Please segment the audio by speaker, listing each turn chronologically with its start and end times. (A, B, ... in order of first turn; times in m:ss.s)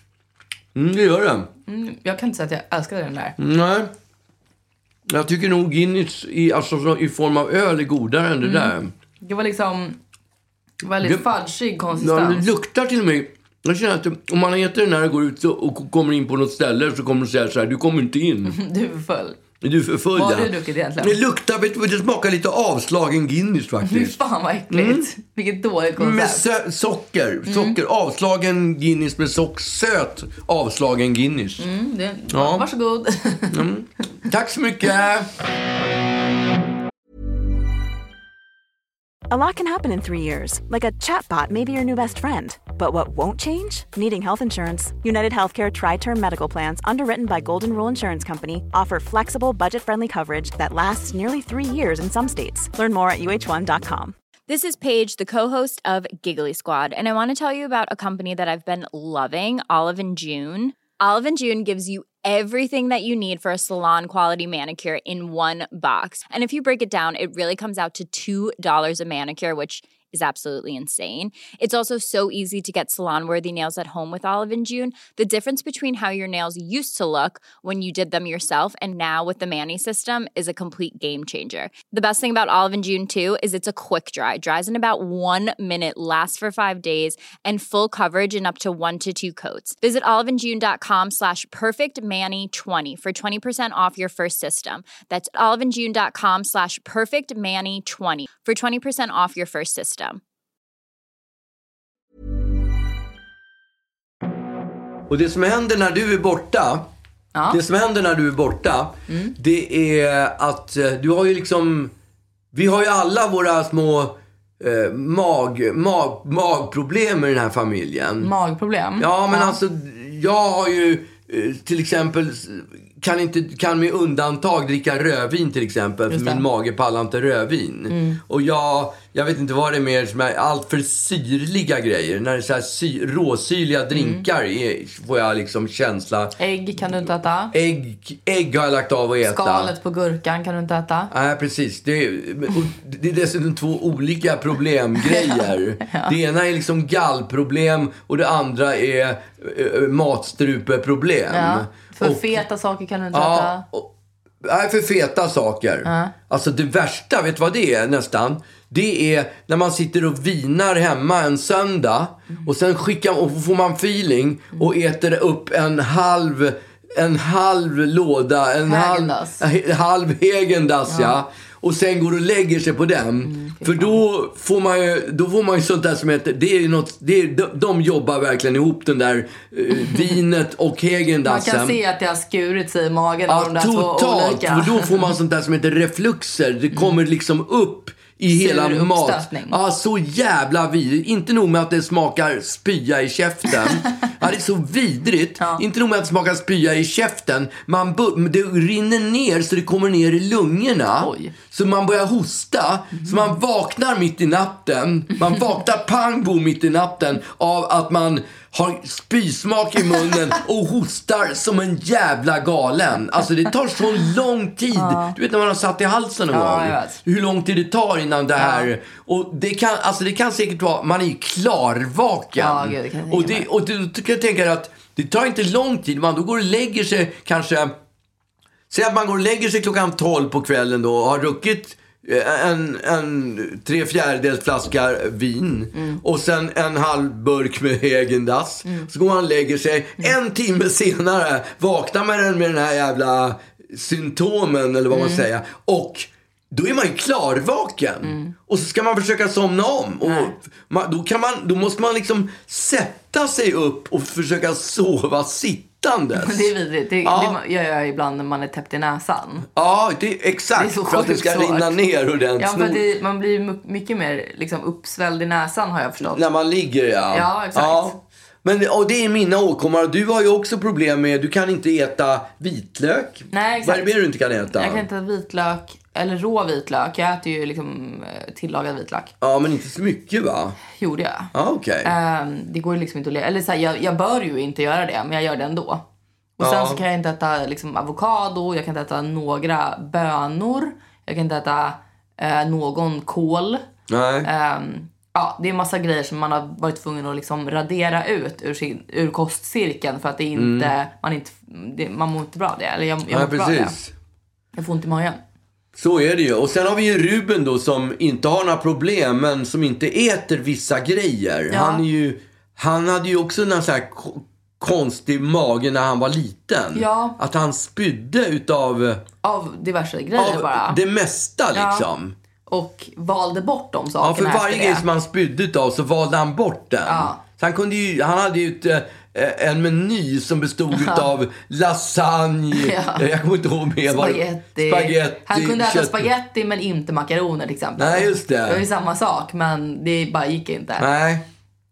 0:00.7-0:01.5 A
0:01.7-0:03.4 B
0:03.4-0:03.9 A
0:05.1-0:08.9 A
0:08.4-0:10.0 B
0:10.8-0:12.5 B
0:11.0-0:11.3 A
0:11.9-0:18.6 A
0:18.4-0:19.4 B
0:19.6-0:24.2 A
0:20.1-0:21.2 B
0:23.8-0:26.4 B
0:24.7-0:25.1 A
0:26.0-0:31.6 A
0:27.4-0:27.8 B
0:31.6-0:33.6 B
0:32.3-0:32.6 A
0:33.5-0:35.3 A
0:39.3-0:54.1 C
0:54.5-1:40.2 D
1:45.1-1:46.9 A
1:47.3-1:47.6 B
1:47.5-1:51.9 A
1:49.1-1:49.3 B
1:52.5-1:58.3 A
1:58.2-1:59.6 B
1:59.0-2:16.9 A
2:06.1-2:06.4 B
2:07.9-2:08.2 B
2:13.9-2:14.2 B
2:16.4-2:17.5 B
2:17.5-2:19.7 A
2:19.2-2:21.1 B
2:21.1-2:32.4 A
2:25.0-2:26.2 B
2:31.3-2:33.6 B
2:33.1-2:33.9 A
2:34.4-3:01.8 A
2:35.8-2:36.1 B
2:48.6-2:49.4 B
2:50.9-2:51.2 B
2:53.2-2:54.0 B
3:01.2-3:05.1 B
3:03.3-3:47.8 A
3:08.3-3:09.6 B
3:15.4-3:15.6 B
3:21.0-3:21.3 B
3:34.7-3:35.2 B
3:36.3-3:37.0 B
3:38.4-3:38.7 B
3:42.4-3:43.5 B
3:48.7-4:16.5 A
3:55.7-3:56.0 B
4:04.9-4:05.2 B
4:08.0-4:08.3 B
4:10.0-4:10.3 B
4:16.2-4:19.5 B
4:17.0-4:17.4 A
4:19.5-4:22.8 A
4:20.6-4:21.8 B
4:22.4-4:26.2 B
4:26.1-4:34.8 A
4:27.1-4:28.0 B
4:33.3-4:33.9 B
4:34.5-4:39.1 B
4:39.2-4:40.6 A
4:40.7-4:41.3 B
4:41.3-4:41.9 A
4:41.8-4:45.8 B
4:46.4-4:53.6 B
4:46.4-4:46.8 A
4:53.9-4:54.3 A
4:54.2-5:03.8 B
5:00.3-5:00.7 A
5:03.1-5:03.9 A
5:04.5-5:05.2 B
5:05.7-5:19.0 A
5:11.5-5:11.8 B
5:16.7-5:17.2 B
5:19.2-5:20.8 B
5:20.2-5:22.1 A
5:21.5-5:21.9 B
5:22.5-5:24.8 B
5:24.0-5:36.1 A
5:26.8-5:27.2 B
5:30.7-5:31.0 B
5:32.5-5:33.0 B
5:33.9-5:40.8 B
5:37.8-5:38.6 A
5:40.8-5:41.2 A